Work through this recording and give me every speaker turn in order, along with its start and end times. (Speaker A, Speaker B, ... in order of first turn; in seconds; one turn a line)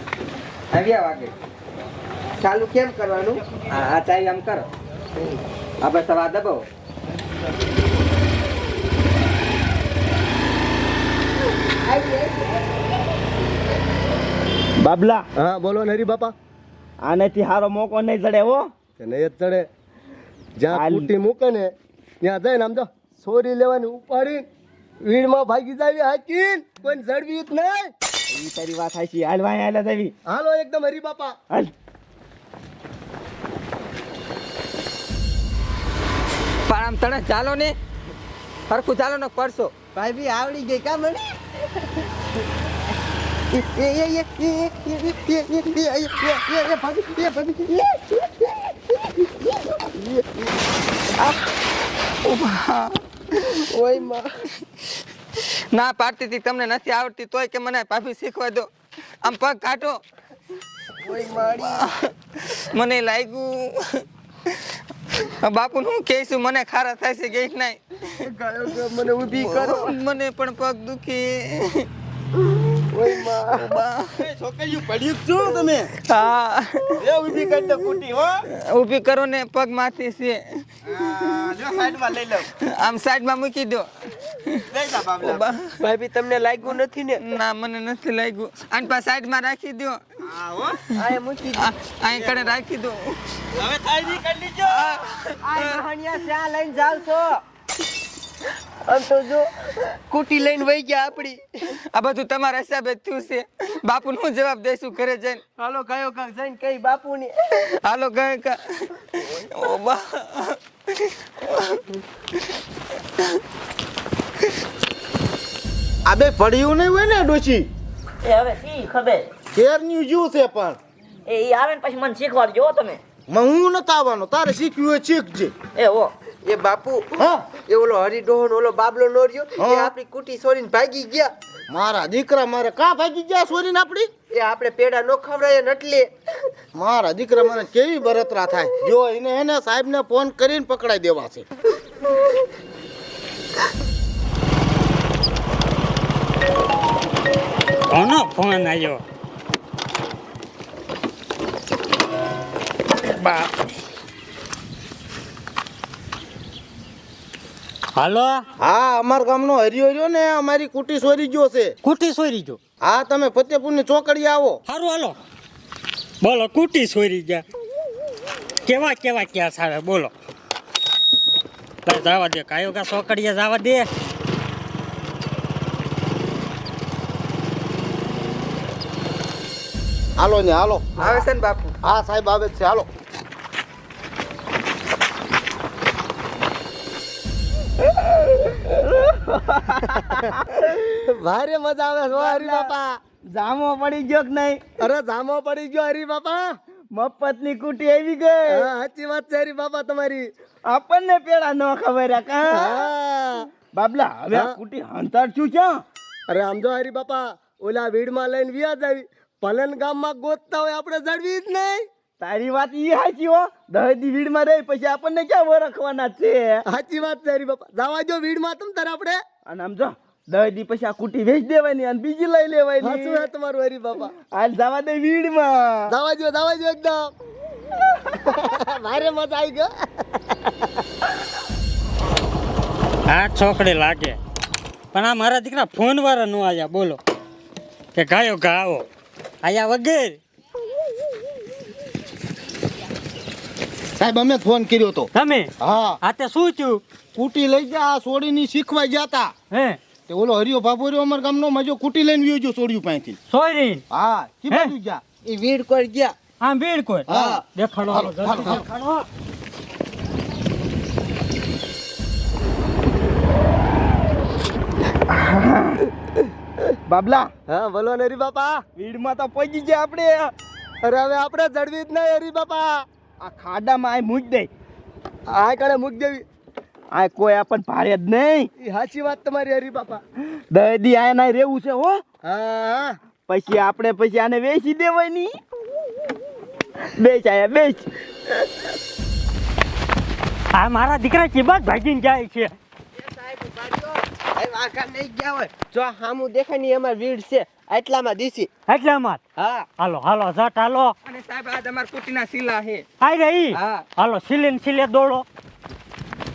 Speaker A: 0.7-1.3
Speaker A: 2.4-4.7
Speaker A: 5.8-6.7
Speaker B: 11.9-12.6
Speaker C: 14.8-15.2
Speaker D: 15.4-16.3
Speaker C: 17.0-18.7
Speaker D: 19.0-19.6
Speaker D: 20.6-21.7
Speaker C: 20.7-21.1
Speaker D: 22.2-24.4
Speaker D: 25.1-27.9
Speaker C: 28.3-30.1
Speaker D: 30.3-31.4
Speaker A: 36.7-37.7
Speaker A: 38.7-39.7
Speaker B: 40.0-41.3
Speaker B: 43.5-48.2
Speaker A: 52.2-53.5
Speaker B: 53.9-54.2
Speaker A: 55.7-58.7
Speaker A: 59.2-60.0
Speaker A: 61.4-62.0
Speaker A: 62.5-64.0
Speaker A: 65.2-67.8
Speaker D: 68.4-70.0
Speaker A: 69.3-71.9
Speaker D: 73.0-73.8
Speaker A: 73.0-74.0
Speaker C: 74.2-75.9
Speaker A: 76.1-77.0
Speaker C: 77.0-78.4
Speaker A: 78.7-80.7
Speaker C: 80.8-82.5
Speaker A: 81.3-81.7
Speaker A: 82.8-83.9
Speaker C: 84.7-85.5
Speaker A: 85.3-85.7
Speaker B: 85.9-87.1
Speaker A: 86.6-90.0
Speaker C: 90.2-90.8
Speaker A: 91.0-93.2
Speaker B: 91.1-91.6
Speaker C: 93.5-95.1
Speaker A: 94.7-95.8
Speaker B: 95.5-97.4
Speaker B: 98.9-101.4
Speaker A: 101.9-105.4
Speaker B: 105.6-107.3
Speaker A: 107.8-111.8
Speaker E: 116.1-117.7
Speaker F: 118.2-119.3
Speaker E: 119.5-120.8
Speaker F: 121.3-123.0
Speaker E: 123.3-125.5
Speaker F: 125.8-126.1
Speaker B: 126.5-131.3
Speaker E: 127.2-127.5
Speaker E: 129.6-129.9
Speaker E: 131.7-134.1
Speaker B: 134.3-136.1
Speaker E: 136.8-141.5
Speaker G: 147.9-149.0
Speaker G: 153.1-153.7
Speaker G: 158.0-158.4
Speaker E: 158.6-161.8
Speaker G: 161.8-162.6
Speaker E: 162.8-164.6
Speaker G: 164.7-165.2
Speaker G: 166.2-167.4
Speaker G: 168.7-170.1
Speaker G: 171.9-173.9
Speaker E: 180.2-181.2
Speaker A: 181.0-181.8
Speaker E: 181.8-182.9
Speaker C: 188.1-190.8
Speaker D: 191.0-193.0
Speaker C: 192.2-192.7
Speaker C: 193.3-194.6
Speaker D: 194.8-196.5
Speaker C: 196.9-198.7
Speaker D: 198.5-200.3
Speaker C: 200.7-202.9
Speaker D: 202.5-203.5
Speaker C: 203.7-205.8
Speaker D: 206.3-211.8
Speaker C: 212.2-216.6
Speaker D: 216.7-219.2
Speaker C: 219.5-223.3
Speaker D: 222.8-224.1
Speaker C: 224.3-225.9
Speaker D: 225.9-227.1
Speaker D: 228.3-230.5
Speaker G: 233.1-234.2
Speaker G: 234.9-237.0
Speaker G: 237.9-238.9
Speaker G: 239.4-240.2
Speaker E: 244.0-246.0
Speaker G: 245.2-246.8
Speaker E: 247.2-249.3
Speaker G: 249.5-249.8
Speaker E: 250.1-253.2
Speaker G: 253.3-253.8
Speaker E: 253.9-255.1
Speaker G: 254.5-254.7
Speaker B: 255.3-256.1
Speaker G: 256.4-259.1
Speaker E: 257.1-258.6
Speaker C: 265.1-265.9
Speaker C: 266.9-267.3
Speaker D: 267.5-268.6
Speaker C: 268.8-270.3
Speaker D: 270.8-272.9
Speaker C: 273.2-274.5
Speaker D: 275.3-276.2
Speaker C: 276.9-278.5
Speaker D: 278.6-280.0
Speaker C: 280.5-282.0
Speaker D: 282.2-283.0
Speaker C: 283.3-285.3
Speaker C: 286.9-287.9
Speaker G: 290.5-292.5
Speaker B: 293.0-298.5
Speaker G: 298.7-299.2
Speaker G: 299.8-300.9
Speaker A: 301.1-302.9
Speaker G: 303.0-305.2
Speaker A: 303.5-303.9